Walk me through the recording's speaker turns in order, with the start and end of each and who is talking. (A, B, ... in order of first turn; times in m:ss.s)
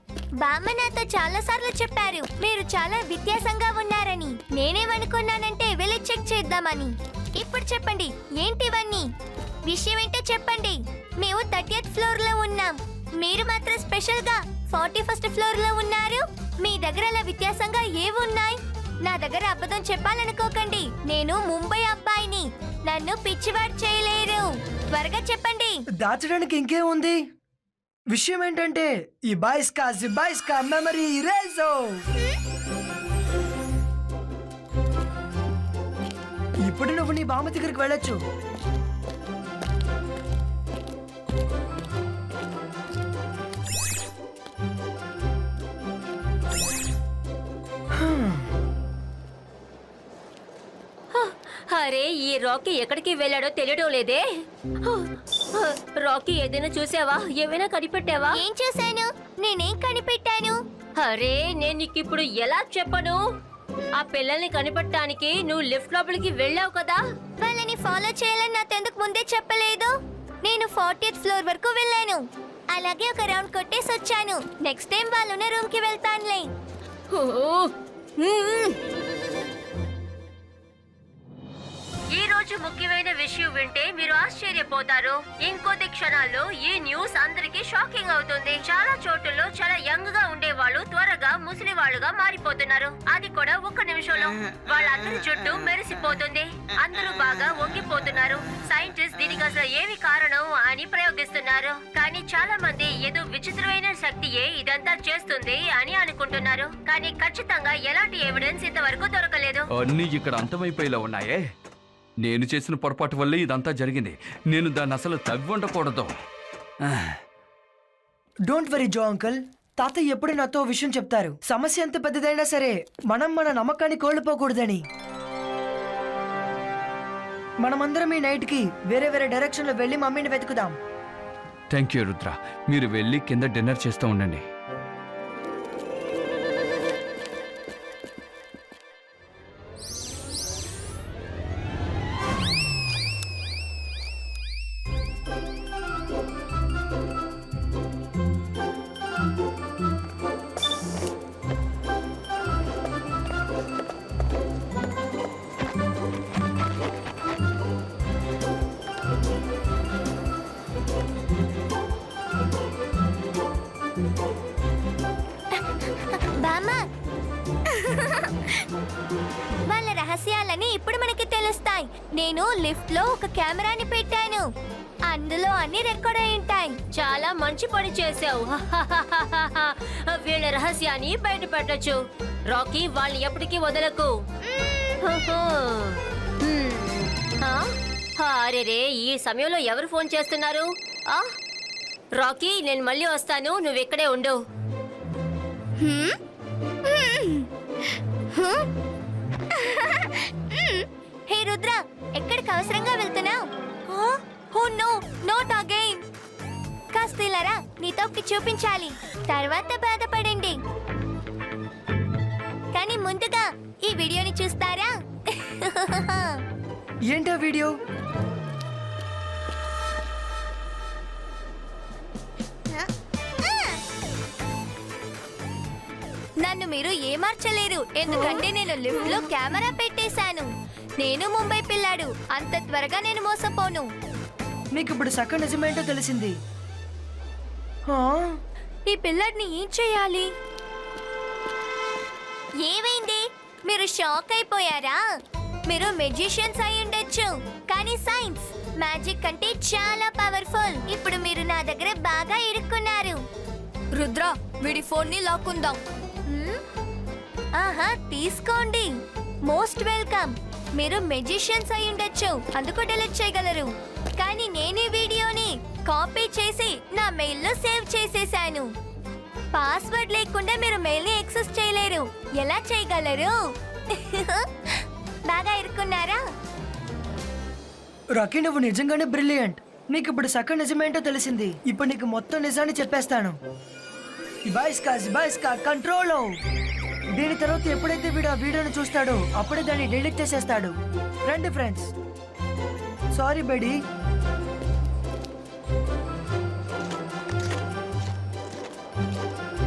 0:00.4-0:09.0 A
0:09.6-0:25.8 A
0:26.0-0:27.2 B
0:28.1-0:32.0 B
0:36.6-0:38.2 B
0:48.0-0:48.3 B
0:51.1-0:54.2 C
0:54.8-0:58.4 C
0:58.3-1:00.6 A
1:01.0-1:03.2 C
1:04.0-1:07.0 C
1:07.4-1:09.9 A
1:10.4-1:12.2 A
1:12.7-1:16.5 A
1:17.1-1:18.8 C
1:22.1-1:49.6 C
1:49.7-1:51.4 D
1:52.2-1:56.1 D
1:56.8-1:57.1 D
1:58.5-2:04.8 B
2:07.6-2:10.8 B
2:11.7-2:14.4 D
2:46.4-2:46.8 A
2:49.7-2:54.4 A
2:55.1-2:56.8 A
2:56.9-3:02.0 C
3:02.5-3:04.1 C
3:05.0-3:07.6 C
3:08.2-3:11.3 C
3:12.2-3:14.4 C
3:16.9-3:17.2 A
3:21.3-3:26.0 A
3:26.9-3:30.6 A
3:32.7-3:36.3 A
3:37.1-3:37.7 B
3:43.4-3:43.7 A
3:46.4-3:50.5 A
3:51.0-3:53.8 A
3:54.7-3:56.3 B
3:57.9-3:58.4 B
3:58.9-4:00.3 A
4:02.6-4:05.0 A
4:05.7-4:13.2 A
4:14.0-4:16.6 A
4:17.6-4:18.9 A
4:19.5-4:28.6 A
4:29.5-4:33.4 A
4:33.9-4:34.4 A
4:35.3-4:36.2 A
4:38.1-4:43.4 B
4:44.5-4:46.4 B
4:47.2-4:50.7 B
4:51.2-4:51.9 B
4:53.2-4:53.8 B